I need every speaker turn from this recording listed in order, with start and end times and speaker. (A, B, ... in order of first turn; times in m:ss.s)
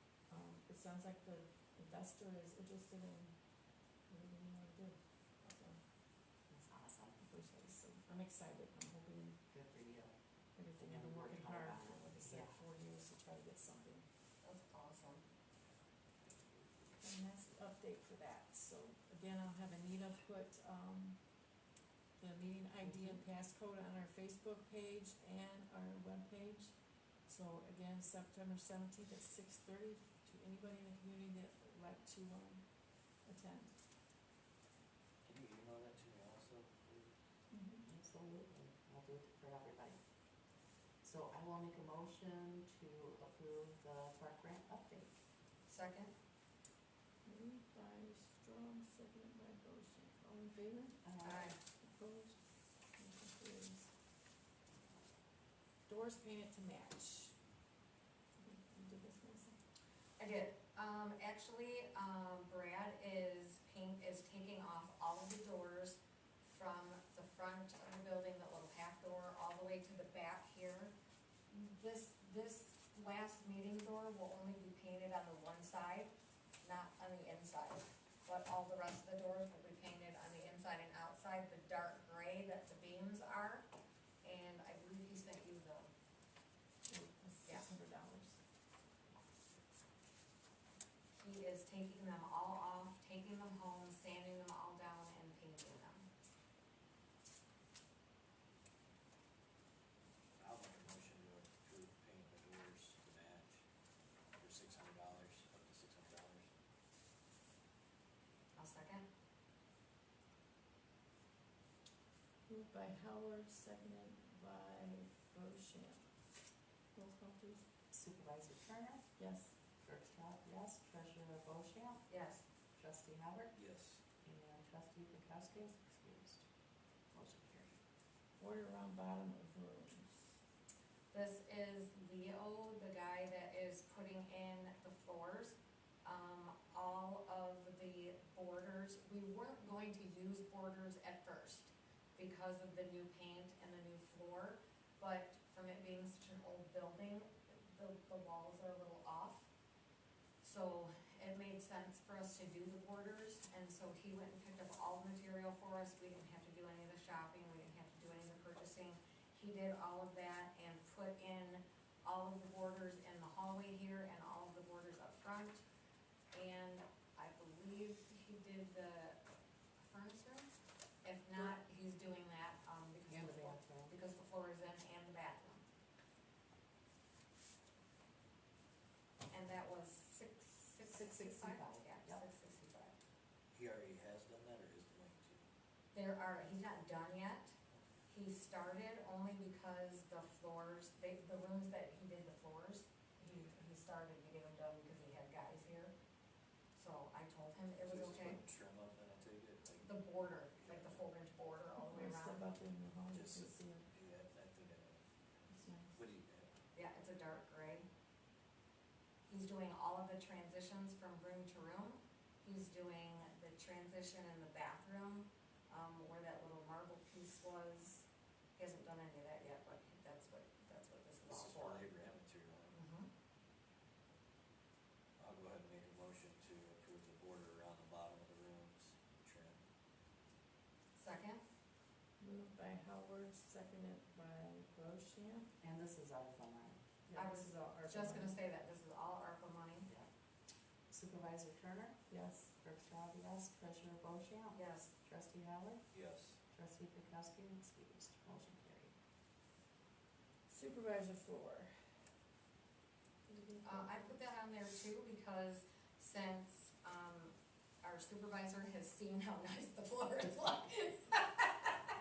0:00.3-0:03.3 A
0:04.1-0:05.8 A
0:06.5-0:07.3 B
0:07.2-0:09.4 A
0:09.5-0:10.2 B
0:10.5-0:14.0 A
0:10.8-0:12.6 B
0:14.4-0:15.2 C
0:17.0-0:21.2 A
0:22.2-0:26.7 A
0:22.9-0:23.2 B
0:27.2-0:32.6 A
0:33.2-0:33.7 A
0:35.2-0:37.1 D
0:37.5-0:37.8 A
0:37.8-0:40.0 B
0:41.0-0:45.1 B
0:45.7-0:46.1 C
0:47.2-0:51.0 A
0:51.0-0:51.5 B
0:51.2-0:51.6 C
0:51.8-0:52.4 A
0:52.9-0:53.9 A
0:55.9-0:57.3 A
0:58.4-0:59.6 A
1:00.2-1:10.9 C
1:11.5-1:23.7 C
1:24.2-1:25.9 C
1:26.8-1:28.4 A
1:31.1-1:36.1 C
1:40.4-1:43.6 D
1:44.4-1:46.5 D
1:48.6-1:49.0 C
1:52.5-1:56.0 A
1:56.9-1:57.6 A
1:57.9-1:59.0 B
1:59.2-1:59.5 A
1:59.8-2:02.0 B
2:02.1-2:02.4 C
2:02.7-2:03.5 B
2:03.5-2:04.0 D
2:04.2-2:06.4 B
2:07.1-2:07.8 B
2:08.4-2:10.3 A
2:11.1-2:29.5 C
2:30.4-2:45.6 C
2:46.3-2:49.2 C
2:49.8-2:50.5 C
2:51.0-2:55.6 C
2:53.1-2:53.9 B
2:59.3-3:03.0 C
3:00.8-3:02.2 B
3:03.5-3:05.4 D
3:05.9-3:07.5 C
3:08.1-3:15.9 C
3:16.7-3:18.4 C
3:17.8-3:19.9 D
3:19.8-3:22.4 C
3:20.5-3:21.0 D
3:21.8-3:23.9 A
3:23.1-3:26.5 D
3:25.5-3:26.0 A
3:26.7-3:27.9 C
3:29.3-3:41.8 C
3:41.2-3:42.7 D
3:42.7-3:43.1 C
3:45.2-3:49.6 D
3:51.0-3:51.4 C
3:52.2-3:55.5 A
3:55.6-3:57.2 B
3:57.1-3:58.3 A
3:57.2-3:59.9 C
4:00.9-4:02.0 B
4:02.1-4:02.5 A
4:02.6-4:05.8 B
4:04.5-4:04.9 C
4:05.9-4:06.4 D
4:06.5-4:08.9 B
4:10.5-4:11.7 A
4:13.3-4:13.9 B
4:13.6-4:21.7 C